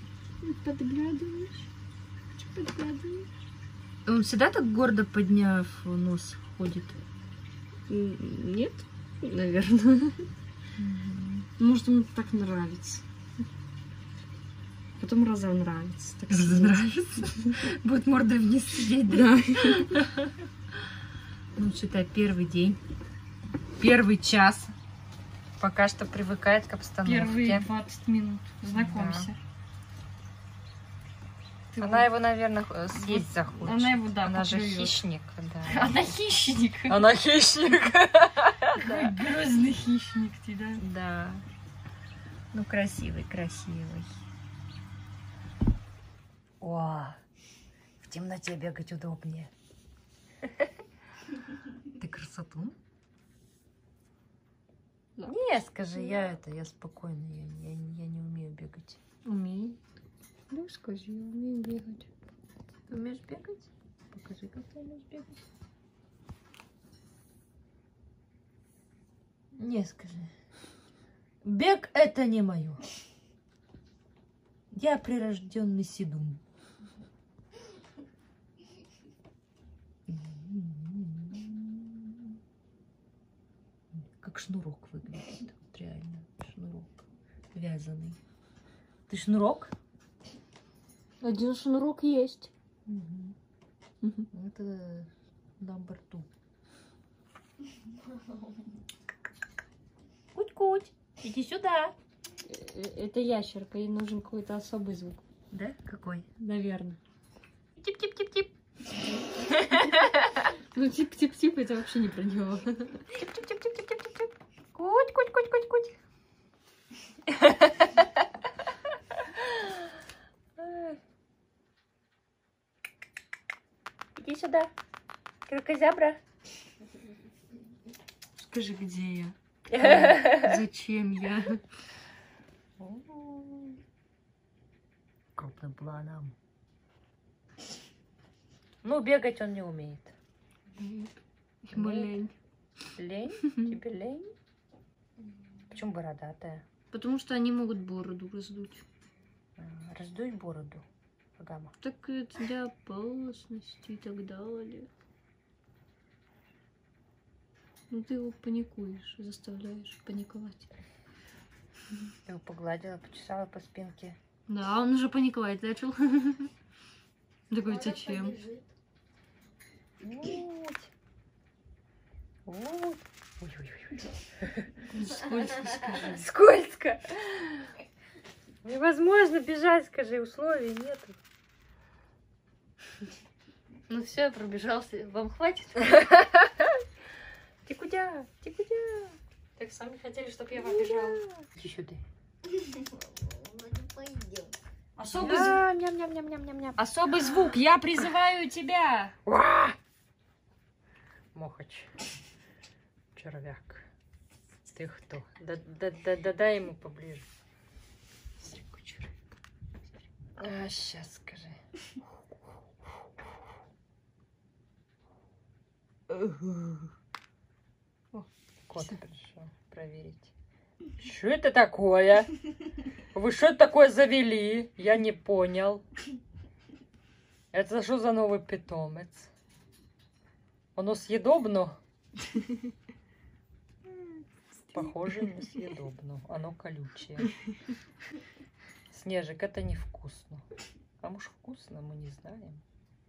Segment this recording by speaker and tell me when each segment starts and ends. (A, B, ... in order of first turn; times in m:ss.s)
0:00.4-0:01.7 A
0:02.3-0:03.3 A
0:04.0-0:07.0 B
0:07.9-0:10.3 A
0:10.8-0:11.5 B
0:11.6-0:13.0 A
0:15.0-0:17.3 A
0:16.3-0:20.0 B
0:19.0-0:20.2 A
0:21.6-0:22.8 B
0:23.8-0:24.7 B
0:25.6-0:27.7 B
0:27.0-0:29.4 A
0:28.7-0:29.3 B
0:31.7-0:32.1 A
0:31.8-0:36.1 B
0:32.9-0:35.0 A
0:35.6-0:37.0 A
0:36.9-0:39.2 B
0:38.8-0:40.8 A
0:40.8-0:41.4 B
0:42.5-0:44.2 B
0:46.6-0:47.2 B
0:48.0-0:49.5 B
0:52.0-0:52.7 B
0:55.2-0:56.3 A
0:55.2-0:59.0 B
0:59.2-0:59.8 A
1:00.5-1:02.1 A
1:02.9-1:05.4 B
1:09.5-1:10.3 B
1:11.4-1:12.8 B
1:14.7-1:16.4 B
1:20.1-1:22.3 B
1:23.9-1:28.2 B
1:29.1-1:29.7 B
1:31.2-1:32.5 A
1:32.9-1:33.3 B
1:34.0-1:34.3 A
1:34.3-1:36.3 B
1:40.3-1:41.9 B
1:42.4-1:45.2 A
1:45.5-1:46.3 B
1:46.4-1:47.0 A
1:47.8-1:48.5 B
1:49.5-1:53.1 A
1:53.1-1:55.9 B
1:57.3-1:57.8 B
1:59.3-1:59.7 B
2:00.6-2:01.0 B
2:04.2-2:04.7 B
2:05.5-2:06.2 B
2:08.4-2:11.6 A
2:09.7-2:10.6 B
2:12.8-2:13.8 B
2:15.4-2:16.3 B
2:18.8-2:20.1 B
2:20.8-2:22.3 A
2:21.7-2:22.2 B
2:23.0-2:24.3 B
2:23.4-2:23.8 A
2:25.7-2:26.6 B
2:26.9-2:28.8 A
2:29.6-2:30.8 B
2:31.4-2:31.7 B
2:31.8-2:34.9 A
2:37.9-2:40.7 A
2:42.2-2:44.2 B
2:44.5-2:46.5 A
2:47.5-2:48.5 A
2:50.0-2:50.9 B
2:52.4-2:54.6 B
2:54.9-2:56.2 A
2:55.9-2:57.7 B
2:58.6-3:01.2 B
3:03.9-3:06.0 A
3:05.8-3:06.6 B
3:07.6-3:09.2 B
3:09.6-3:11.2 A
3:10.5-3:12.0 B
3:13.8-3:14.1 A
3:15.0-3:15.6 A
3:15.1-3:16.8 B
3:16.8-3:19.2 A
3:19.2-3:19.8 B
3:21.3-3:21.9 B
3:23.2-3:23.9 B
3:24.7-3:27.3 B
3:28.4-3:29.2 A
3:30.4-3:31.6 B
3:36.2-3:36.7 B
3:38.7-3:40.3 B
3:41.0-3:42.3 B
3:43.1-3:45.8 B
3:47.5-3:49.3 B
3:50.8-3:51.8 B
3:54.7-3:57.3 B
3:58.9-4:00.4 B
4:01.0-4:02.6 B